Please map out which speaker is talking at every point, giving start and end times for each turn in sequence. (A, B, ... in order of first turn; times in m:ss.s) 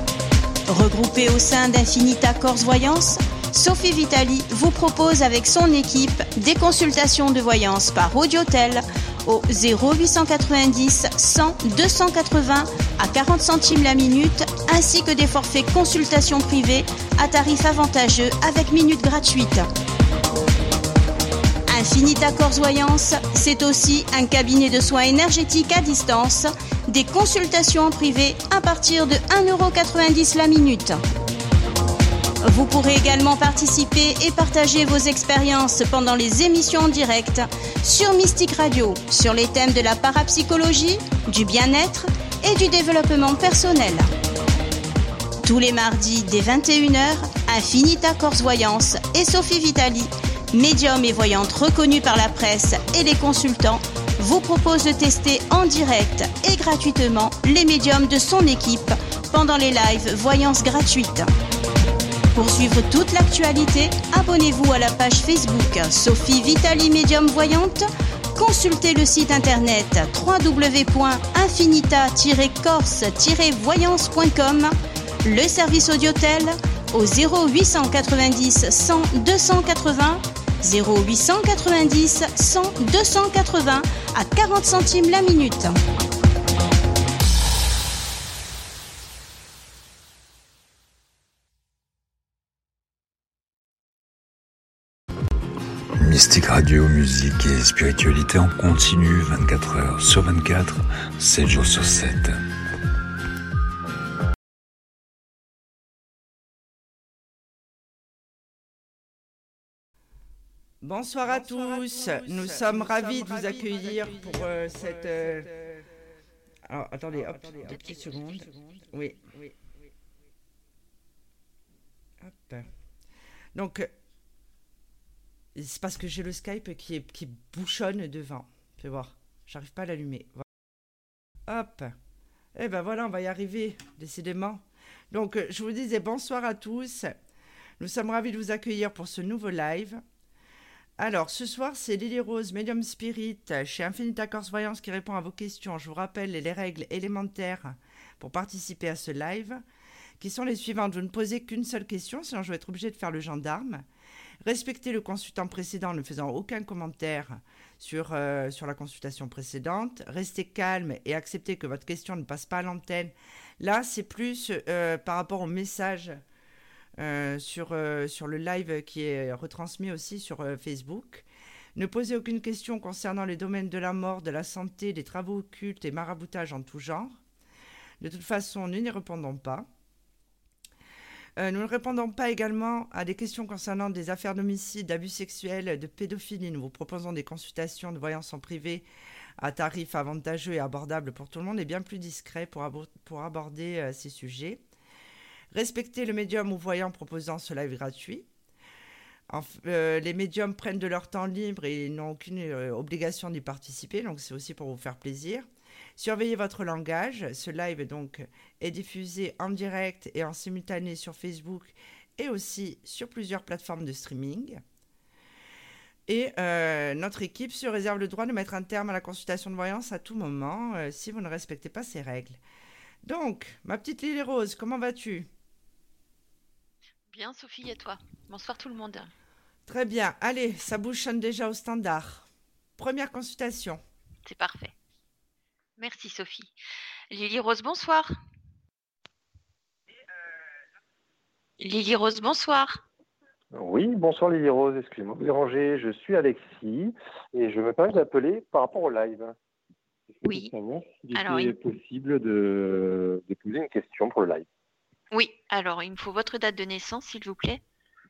0:00.7-0:19.7 A
0:21.7-0:31.0 A
0:32.4-0:44.1 A
0:45.4-1:01.3 A
1:02.3-1:25.7 A
1:36.0-1:42.4 B
1:50.8-1:55.5 C
1:56.6-1:59.3 C
1:57.7-1:58.0 D
2:02.2-2:02.7 C
2:03.5-2:03.9 C
2:05.5-2:10.4 C
2:11.5-2:11.9 C
2:12.5-2:17.2 C
2:17.8-2:20.0 C
2:21.0-2:29.6 C
2:30.2-2:33.8 C
2:34.4-2:46.2 C
2:47.0-2:57.2 C
2:58.0-2:59.7 C
3:01.4-3:08.9 C
3:09.4-3:14.6 C
3:15.5-3:18.3 C
3:19.3-3:34.6 C
3:36.1-3:42.4 C
3:43.0-3:45.3 C
3:47.1-3:49.1 D
3:49.7-3:53.8 C
3:54.2-3:54.7 D
3:55.8-3:56.5 D
3:57.1-3:58.1 D
4:01.6-4:02.8 D
4:03.5-4:09.4 E
4:10.2-4:10.5 D
4:10.3-4:14.4 E
4:11.1-4:11.6 D
4:15.1-4:17.6 D